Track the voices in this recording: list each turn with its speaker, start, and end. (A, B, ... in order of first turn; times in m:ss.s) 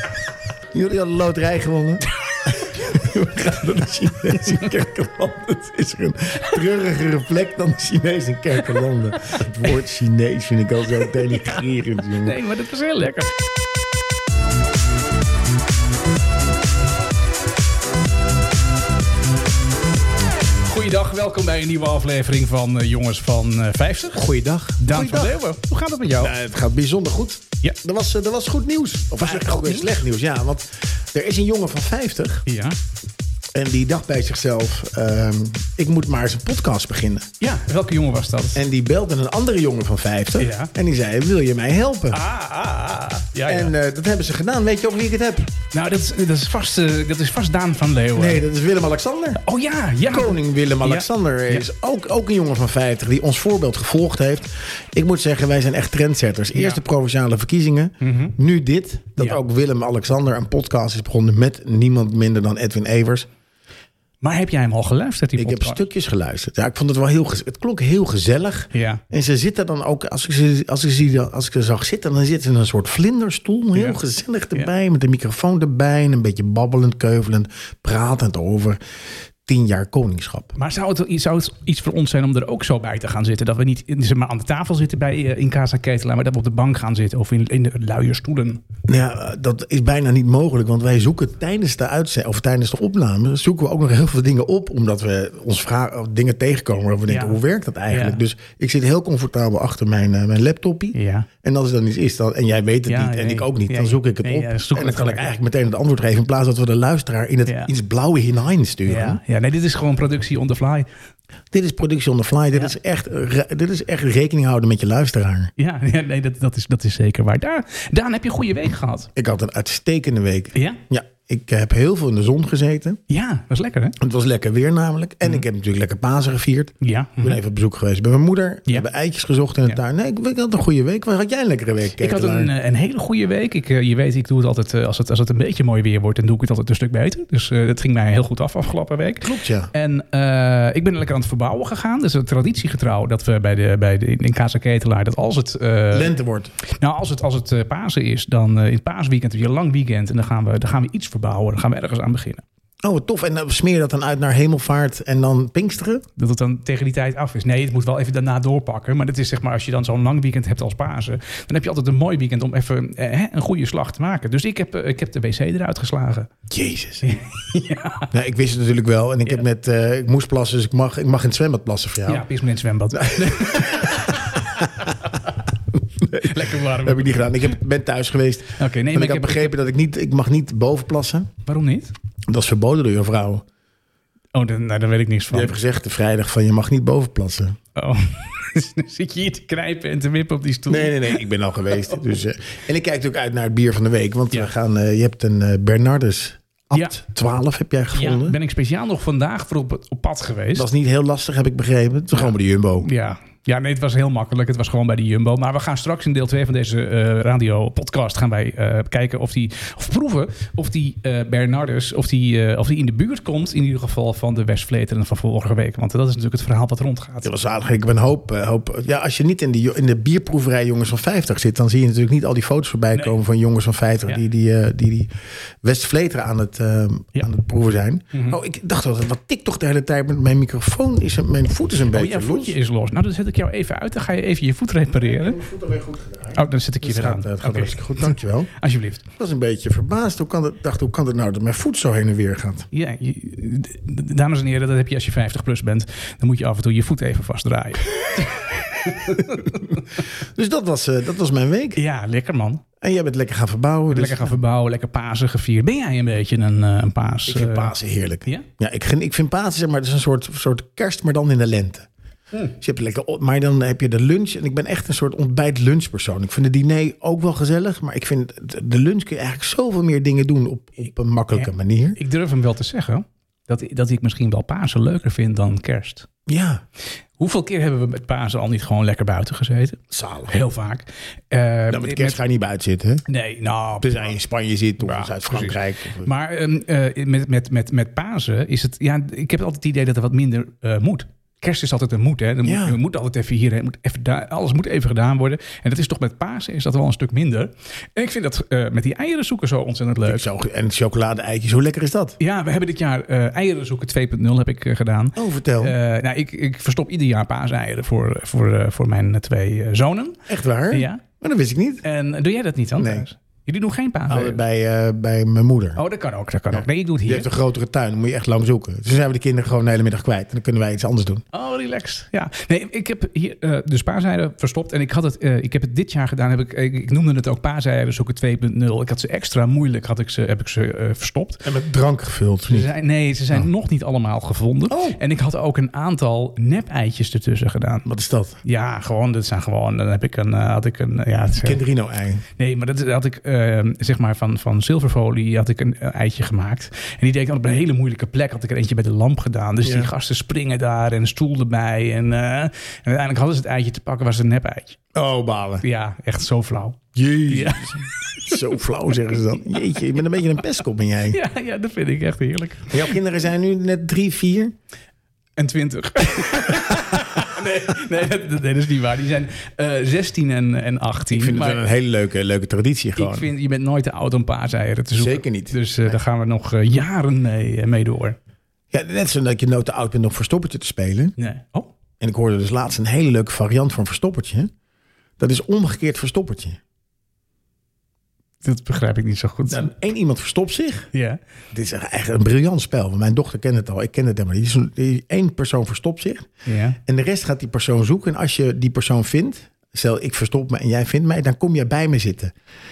0:00.7-0:12.4 A
0:12.2-0:13.3 B
0:20.6-0:26.4 B
0:24.1-0:25.4 A
0:26.2-0:32.5 A
0:29.2-0:29.9 B
0:32.5-0:32.8 B
0:33.5-0:37.3 A
0:37.4-0:38.6 B
0:38.6-0:42.2 A
0:40.4-0:40.7 B
0:42.1-0:43.7 B
0:43.5-0:45.5 A
0:45.7-0:48.4 B
0:48.2-0:49.4 A
0:49.4-0:51.7 B
0:50.1-1:03.3 A
0:56.5-0:56.8 B
0:58.0-0:58.4 B
1:04.2-1:05.9 B
1:05.4-1:18.8 A
1:08.7-1:09.0 B
1:13.7-1:14.0 B
1:19.5-1:20.5 A
1:20.6-1:28.6 B
1:28.9-1:49.2 A
1:37.1-1:38.2 B
1:40.9-1:41.3 B
1:42.9-1:45.3 B
1:47.5-1:47.7 B
1:48.9-1:50.9 B
1:51.5-1:55.5 A
1:55.6-1:59.1 B
1:59.2-2:03.0 A
2:00.5-2:00.8 B
2:03.1-2:04.0 B
2:04.0-2:12.5 A
2:06.8-2:07.4 B
2:12.0-2:32.4 B
2:19.2-2:19.7 A
2:25.9-2:26.5 A
2:32.8-2:36.0 A
2:36.2-2:46.3 B
2:46.5-2:47.1 A
2:47.0-2:48.1 B
2:48.1-2:52.3 A
2:52.1-2:55.1 B
2:52.9-2:55.1 A
2:55.7-3:01.3 A
2:56.1-2:57.6 B
2:58.6-2:59.6 B
3:01.5-3:01.9 B
3:02.3-3:03.4 A
3:04.3-3:05.6 B
3:05.3-3:07.6 A
3:07.8-3:11.2 B
3:10.7-3:18.4 A
3:16.7-3:17.0 B
3:17.9-3:20.7 B
3:20.6-3:22.9 A
3:22.2-3:37.3 B
3:37.2-3:52.6 A
3:48.1-3:48.4 B
3:51.9-3:55.4 B
3:54.9-3:58.5 A
3:56.3-3:59.0 B
3:59.2-4:02.7 A
4:02.7-4:09.8 B
4:09.2-4:11.8 A
4:11.8-4:12.6 B
4:12.8-4:14.3 A
4:13.9-4:17.7 B
4:17.3-4:21.9 A
4:22.5-4:32.0 A
4:31.4-4:36.1 B
4:36.3-4:36.6 A
4:37.2-4:42.2 B
4:39.9-4:40.3 A
4:41.7-4:43.0 A
4:43.1-4:44.1 B
4:43.8-4:46.1 A
4:44.8-5:00.2 B
4:52.4-4:52.8 A
5:00.0-5:02.2 A
5:02.2-5:11.0 B
5:05.2-5:05.8 A
5:10.3-5:11.8 A
5:11.8-5:14.4 B
5:12.8-5:13.1 A
5:14.1-5:15.8 A
5:15.8-5:17.3 B
5:16.5-5:21.2 A
5:21.3-5:31.5 B
5:31.4-5:32.7 A
5:32.5-5:37.9 B
5:34.7-5:35.0 A
5:37.9-5:38.4 A
5:38.4-5:41.6 B
5:41.4-5:42.2 A
5:42.4-5:54.8 B
5:49.6-5:49.9 A
5:54.9-5:55.6 A
5:55.6-5:58.3 B
5:56.9-6:01.2 A
6:01.1-6:03.0 B
6:02.7-6:04.6 A
6:05.4-6:11.6 B
6:06.6-6:07.0 A
6:11.1-6:13.3 A
6:13.0-6:18.2 B
6:15.0-6:16.0 A
6:18.7-6:21.2 A
6:21.2-6:21.7 B
6:22.0-6:24.5 A
6:25.2-6:26.6 A
6:28.4-6:29.7 B
6:29.5-6:30.9 A
6:30.9-6:31.2 B
6:31.5-6:36.3 A
6:36.5-6:36.8 B
6:36.8-6:42.3 A